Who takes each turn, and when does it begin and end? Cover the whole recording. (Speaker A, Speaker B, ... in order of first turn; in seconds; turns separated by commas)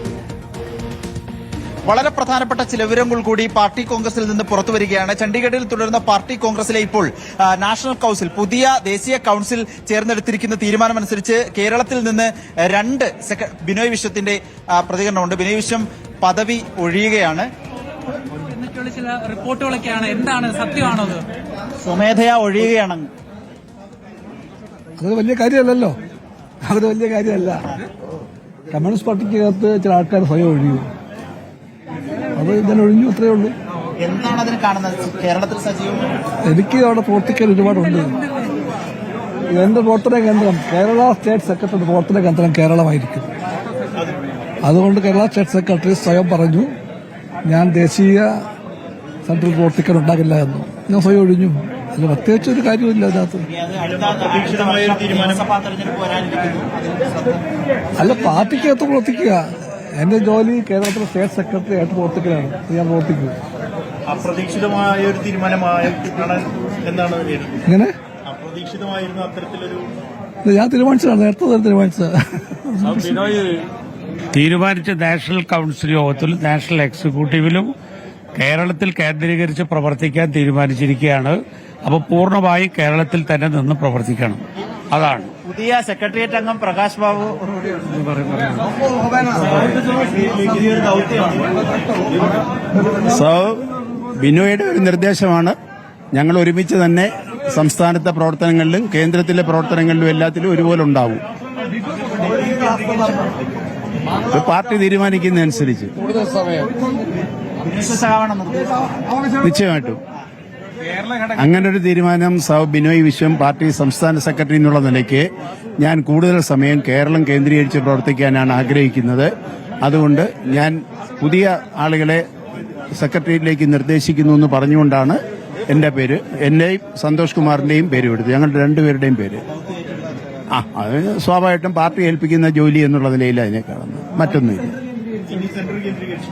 Speaker A: 1.9-17.5, Speaker B: 18.4-21.3, Speaker A: 21.8-23.1, Speaker C: 25.0-26.0, Speaker C: 26.6-27.7, Speaker C: 28.7-30.9, Speaker C: 32.4-33.5, Speaker A: 34.0-36.1, Speaker C: 36.5-38.2, Speaker C: 39.5-43.3, Speaker C: 44.6-46.7, Speaker C: 47.5-48.4, Speaker C: 49.2-53.5, Speaker A: 53.4-57.4, Speaker D: 54.4-55.3, Speaker C: 58.0-63.4, Speaker A: 58.0-58.5, Speaker D: 64.1-67.6, Speaker C: 67.7-68.0, Speaker D: 68.3-69.9, Speaker C: 70.4-73.2, Speaker E: 73.0-73.5, Speaker E: 74.3-77.7, Speaker E: 78.3-85.3, Speaker A: 85.4-88.5, Speaker A: 89.2-91.6, Speaker F: 93.0-93.6, Speaker F: 94.2-95.6, Speaker F: 96.2-101.2, Speaker A: 102.1-103.3, Speaker F: 104.3-106.6, Speaker A: 107.6-108.9, Speaker F: 109.4-110.0, Speaker F: 111.3-115.3, Speaker F: 115.8-119.3, Speaker F: 119.8-122.2, Speaker F: 123.0-129.4, Speaker A: 129.5-130.1, Speaker F: 130.5-134.7, Speaker A: 135.3-136.0